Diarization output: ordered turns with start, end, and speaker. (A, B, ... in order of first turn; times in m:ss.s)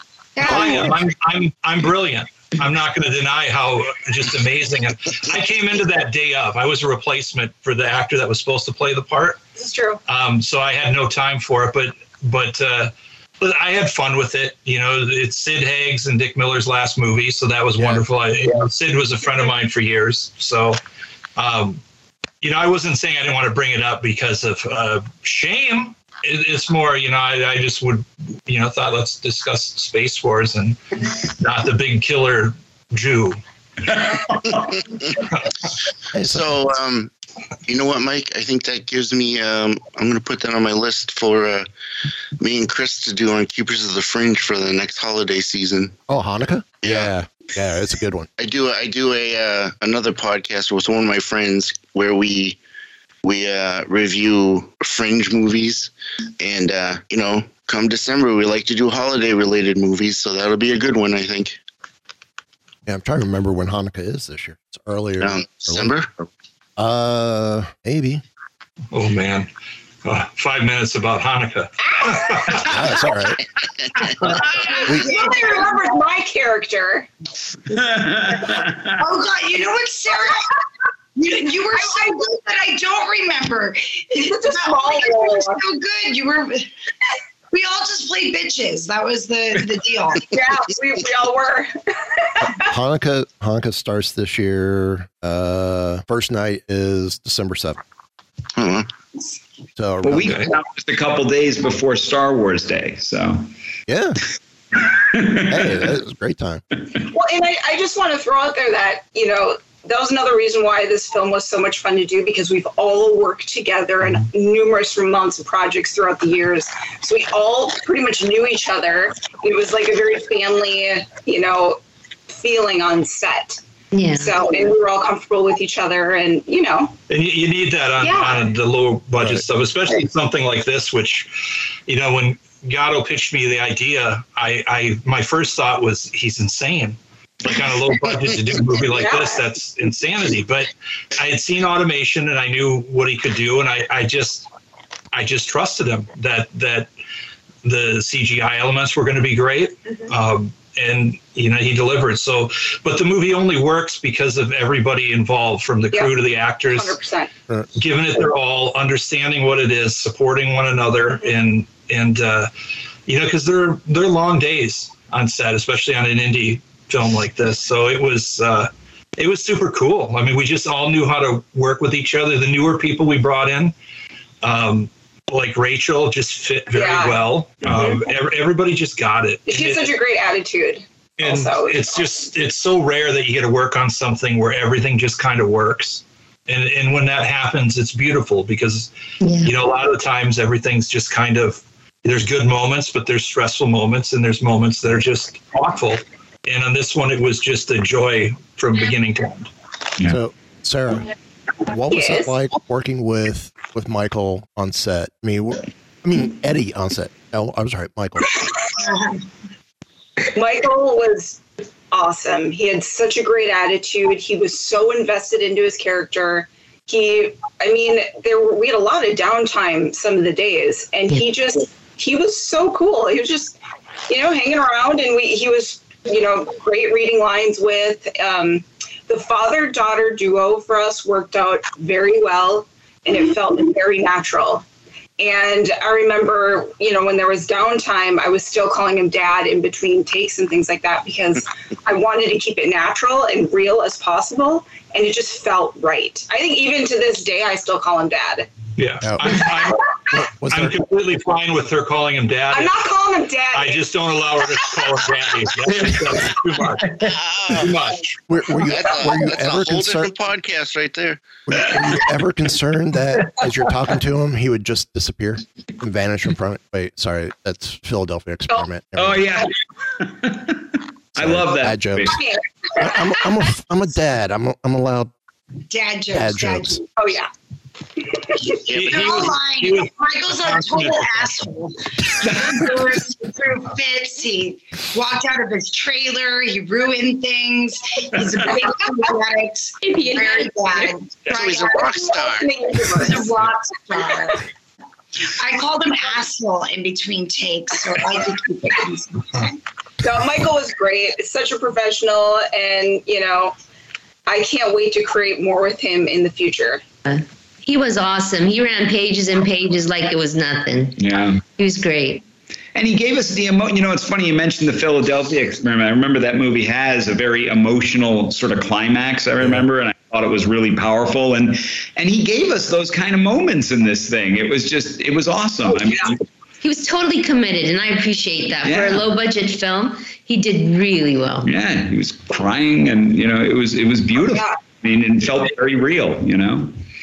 0:00.4-0:01.0 A
0:00.4-0:09.4 B
0:09.6-0:10.0 C
0:10.1-0:20.8 B
0:21.4-0:21.8 B
0:22.4-0:30.8 B
0:31.4-0:33.4 B
0:33.9-0:34.8 D
0:36.1-0:36.5 E
0:36.3-0:37.1 F
0:37.7-0:41.7 F
0:42.4-0:45.9 F
0:46.1-0:48.3 E
0:46.8-0:47.1 F
0:48.4-0:52.6 F
0:53.2-1:01.6 F
1:02.8-1:05.9 E
1:05.2-1:06.1 F
1:06.8-1:08.2 E
1:08.9-1:09.5 B
1:10.0-1:12.9 B
1:12.6-1:13.4 E
1:14.5-1:17.1 C
1:14.6-1:16.0 A
1:17.7-1:18.9 D
1:19.0-1:20.4 A
1:21.2-1:26.6 A
1:21.8-1:22.1 C
1:24.2-1:25.6 C
1:27.5-1:30.3 A
1:30.3-1:31.7 C
1:32.4-1:37.8 E
1:38.6-1:38.9 F
1:39.8-1:40.5 E
1:40.0-1:43.4 D
1:43.9-1:44.2 E
1:45.1-1:45.4 D
1:45.5-1:46.6 E
1:47.1-2:03.6 C
2:03.9-2:04.4 G
2:04.2-2:06.9 C
2:07.1-2:11.3 B
2:08.0-2:08.5 C
2:11.9-2:24.4 B
2:18.9-2:19.4 C
2:25.1-2:26.9 B
2:27.6-2:37.0 B
2:36.7-2:37.3 C
2:37.8-2:42.5 B
2:43.1-2:53.7 B
2:54.4-2:59.9 B
2:56.7-2:58.0 C
2:59.5-3:02.0 C
3:01.2-3:08.9 B
3:09.2-3:09.5 G
3:09.4-3:19.5 B
3:20.0-3:21.1 E
3:21.6-3:28.5 E
3:21.9-3:22.4 C
3:30.3-3:54.6 C
3:55.2-4:08.5 C
4:08.8-4:09.8 B
4:09.0-4:10.9 E
4:10.5-4:12.8 B
4:12.5-4:13.8 C
4:13.5-4:18.1 B
4:18.3-4:20.1 E
4:18.7-4:21.4 F
4:21.4-4:29.4 E
4:28.9-4:29.5 D
4:30.0-4:30.6 D
4:31.1-4:32.2 E
4:31.1-4:32.2 D
4:32.1-4:33.3 C
4:32.8-4:35.1 E
4:35.7-4:36.8 A
4:36.1-4:36.8 E
4:37.0-4:37.3 C
4:38.7-4:39.9 B
4:38.7-4:51.9 A
4:40.4-4:41.4 B
4:49.8-4:50.8 G
4:51.3-4:52.5 F
4:51.6-4:53.3 C
4:53.0-4:54.4 A
4:55.3-4:59.5 A
5:00.0-5:03.5 C
5:04.2-5:06.8 C
5:07.0-5:12.2 G
5:11.0-5:11.4 D
5:12.7-5:26.2 D
5:25.6-5:26.2 C
5:26.6-5:31.5 G
5:28.6-5:29.0 D
5:31.4-5:36.7 D
5:34.2-5:34.6 C